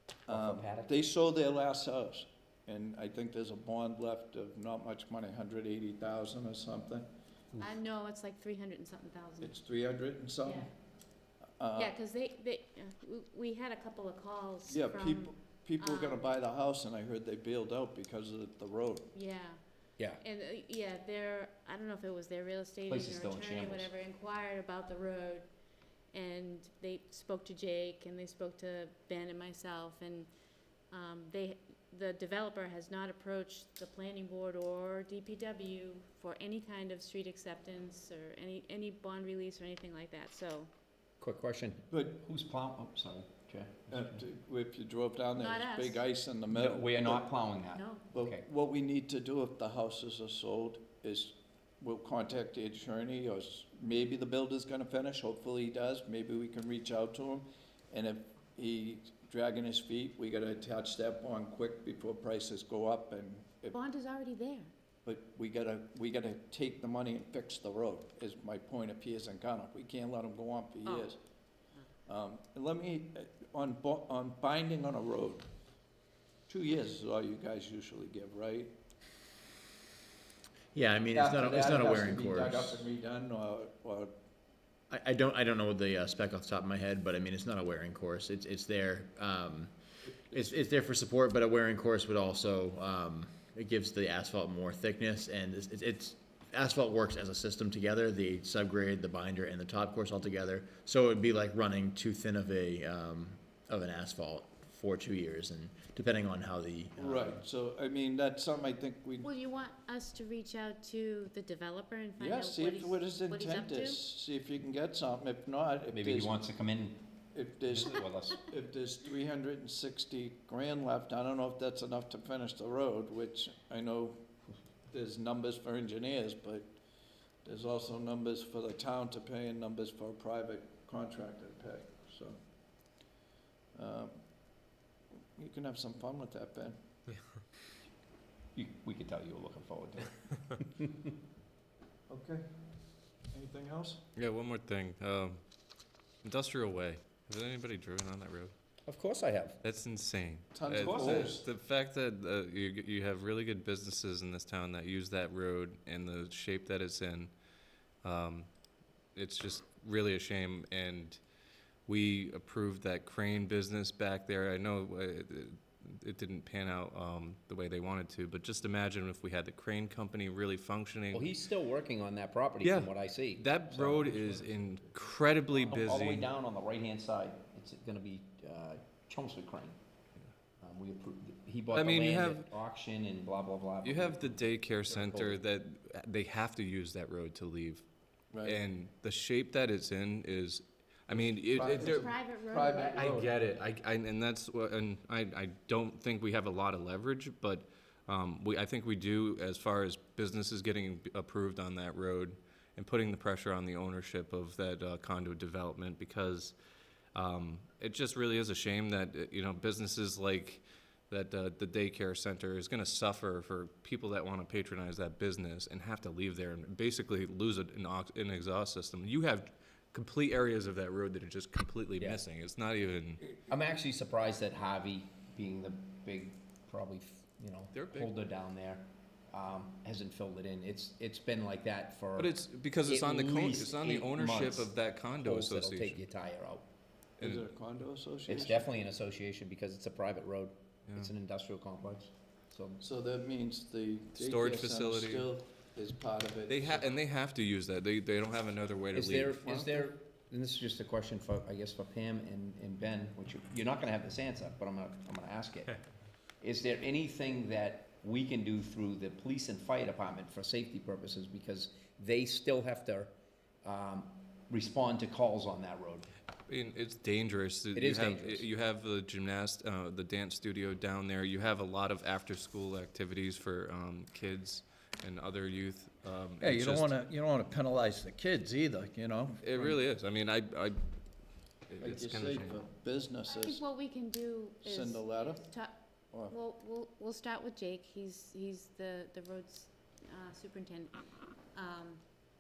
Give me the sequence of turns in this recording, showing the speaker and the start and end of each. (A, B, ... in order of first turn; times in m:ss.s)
0:00.3-0:01.0 A
0:00.3-0:07.1 B
0:07.6-0:09.5 C
0:09.4-0:10.7 B
0:11.6-0:11.9 B
0:11.8-0:16.3 C
0:14.7-0:19.1 B
0:19.1-0:19.6 C
0:20.2-0:25.5 C
0:22.9-0:23.9 A
0:26.1-0:30.3 C
0:30.9-0:40.7 C
0:41.2-0:44.2 A
0:41.9-0:42.2 B
0:43.9-0:47.3 B
0:45.4-0:46.0 C
0:46.5-0:48.4 A
0:47.7-0:48.0 C
0:48.1-1:03.8 B
1:03.7-1:04.7 C
1:05.0-1:11.2 B
1:10.8-1:11.1 C
1:12.1-1:15.5 B
1:16.5-1:18.8 B
1:20.7-1:22.8 D
1:21.1-1:24.1 B
1:24.9-1:29.7 D
1:30.3-1:47.4 D
1:47.0-1:49.3 B
1:49.2-1:54.0 C
1:52.2-1:56.4 B
1:55.9-1:57.1 A
1:57.3-2:04.2 B
1:57.6-1:58.4 A
2:04.9-2:06.7 B
2:07.4-2:12.4 B
2:13.8-2:14.2 B
2:15.4-2:16.8 B
2:18.6-2:21.1 A
2:22.1-2:22.5 B
2:23.3-2:24.0 B
2:24.2-2:25.4 E
2:26.2-2:28.5 E
2:28.9-2:29.6 A
2:29.6-2:37.3 E
2:30.5-2:31.5 B
2:30.7-2:31.3 A
2:38.0-2:38.5 E
2:39.2-2:41.2 E
2:41.9-2:51.3 E
2:51.1-2:54.2 A
2:52.6-2:56.3 E
2:55.5-2:59.8 A
3:00.6-3:05.4 A
3:01.7-3:02.5 E
3:03.8-3:07.8 E
3:08.3-3:08.6 B
3:08.4-3:12.1 E
3:11.4-3:13.3 B
3:11.9-3:13.1 C
3:12.8-3:26.6 E
3:27.1-3:43.2 E
3:43.5-3:56.6 A
3:47.7-3:48.1 E
3:52.2-3:56.0 E
3:57.2-3:58.6 B
3:58.3-4:02.8 A
4:02.8-4:07.0 B
4:04.2-4:05.3 E
4:06.5-4:09.4 E
4:08.9-4:15.8 A
4:09.4-4:09.8 B
4:16.4-4:26.1 A
4:26.5-4:36.9 E
4:27.8-4:28.5 A
4:36.4-4:39.7 B
4:39.4-4:40.8 E
4:41.7-4:42.6 E
4:41.8-4:43.6 B
4:43.2-4:51.0 C
4:44.6-4:45.5 B
4:51.5-4:52.0 C